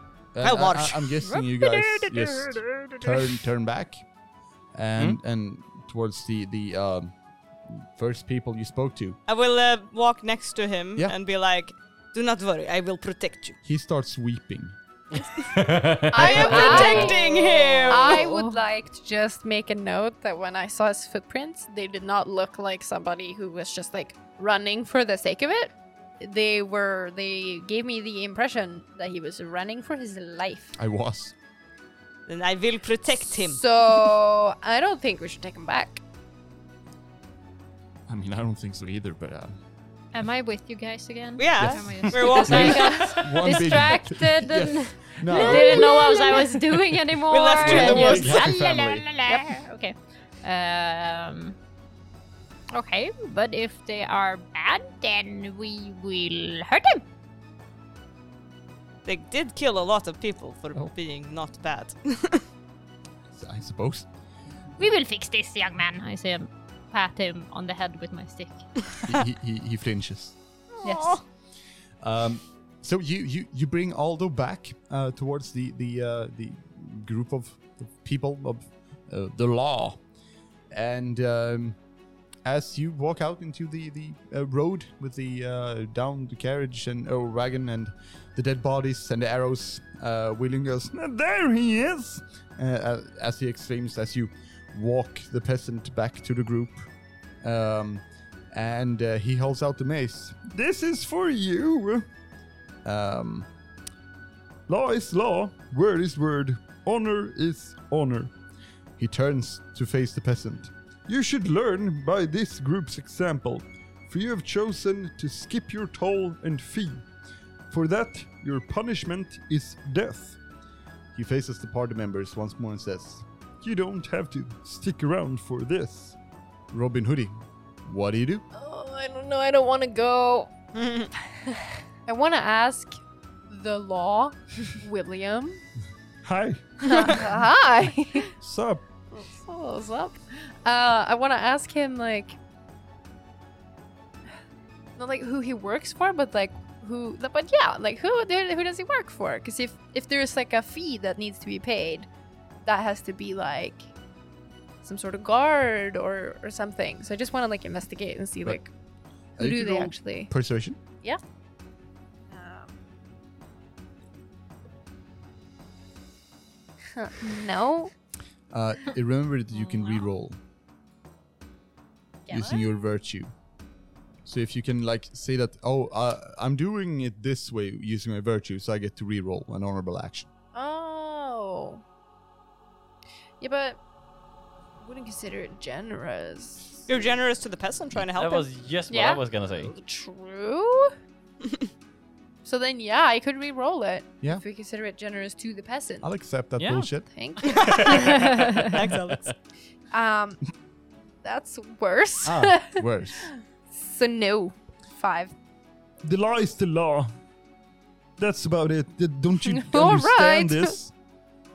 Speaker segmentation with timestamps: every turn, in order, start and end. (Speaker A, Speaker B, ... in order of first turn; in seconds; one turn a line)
Speaker A: 0.3-4.0
Speaker B: 0.4-1.2
Speaker C: 1.2-1.8
Speaker D: 1.8-3.2
Speaker A: 4.8-7.1
Speaker A: 7.7-9.2
Speaker B: 9.3-13.6
Speaker A: 13.6-14.8
Speaker B: 15.2-15.5
Speaker D: 15.5-17.1
Speaker E: 16.1-30.8
Speaker B: 16.1-18.3
Speaker C: 16.4-17.2
Speaker C: 17.9-18.6
Speaker A: 30.8-31.3
Speaker B: 32.3-33.6
Speaker E: 33.5-36.0
Speaker A: 38.1-39.6
Speaker C: 40.1-51.6
Speaker B: 41.4-43.1
Speaker A: 41.6-46.2
Speaker E: 45.8-46.1
Speaker B: 47.3-48.5
Speaker A: 47.5-49.1
Speaker C: 52.7-57.0
Speaker B: 59.0-62.4
Speaker A: 63.3-64.1
Speaker C: 64.8-68.7
Speaker A: 69.1-70.4
Speaker B: 70.8-71.2
Speaker C: 70.8-71.2
Speaker A: 72.0-80.0
Speaker A: 80.7-81.8
Speaker A: 82.5-90.9
Speaker F: 90.9-92.2
Speaker A: 92.6-96.9
Speaker A: 97.4-100.4
Speaker F: 100.4-102.1
Speaker A: 102.8-103.5
Speaker F: 104.7-108.3
Speaker A: 109.0-110.7
Speaker F: 111.1-117.0
Speaker F: 117.7-120.4
Speaker A: 121.1-123.2
Speaker F: 123.6-126.2
Speaker A: 126.7-128.4
Speaker E: 128.5-130.5
Speaker B: 130.8-131.1
Speaker E: 131.3-133.0
Speaker E: 133.5-135.6
Speaker F: 136.2-137.4
Speaker E: 136.9-138.3
Speaker F: 138.4-138.8
Speaker E: 139.1-142.4
Speaker E: 145.0-152.1
Speaker E: 152.7-153.9
Speaker E: 154.8-158.7
Speaker A: 159.4-160.8
Speaker E: 159.4-160.3
Speaker E: 162.3-162.7
Speaker E: 166.9-167.9
Speaker A: 168.5-170.4
Speaker E: 172.3-172.7
Speaker A: 172.3-173.3
Speaker A: 174.2-180.3
Speaker E: 180.5-181.8
Speaker E: 183.4-183.8
Speaker E: 184.8-187.0
Speaker B: 186.9-188.5
Speaker D: 188.2-189.7
Speaker C: 188.9-189.2
Speaker E: 189.6-190.9
Speaker E: 192.4-196.1
Speaker A: 196.0-197.1
Speaker D: 196.6-196.9
Speaker E: 197.1-198.1
Speaker D: 197.4-199.3
Speaker B: 197.5-199.3
Speaker C: 198.1-198.7
Speaker E: 199.9-200.4
Speaker E: 201.2-205.3
Speaker A: 202.2-203.3
Speaker F: 206.0-207.1
Speaker F: 208.2-210.9
Speaker E: 209.4-210.8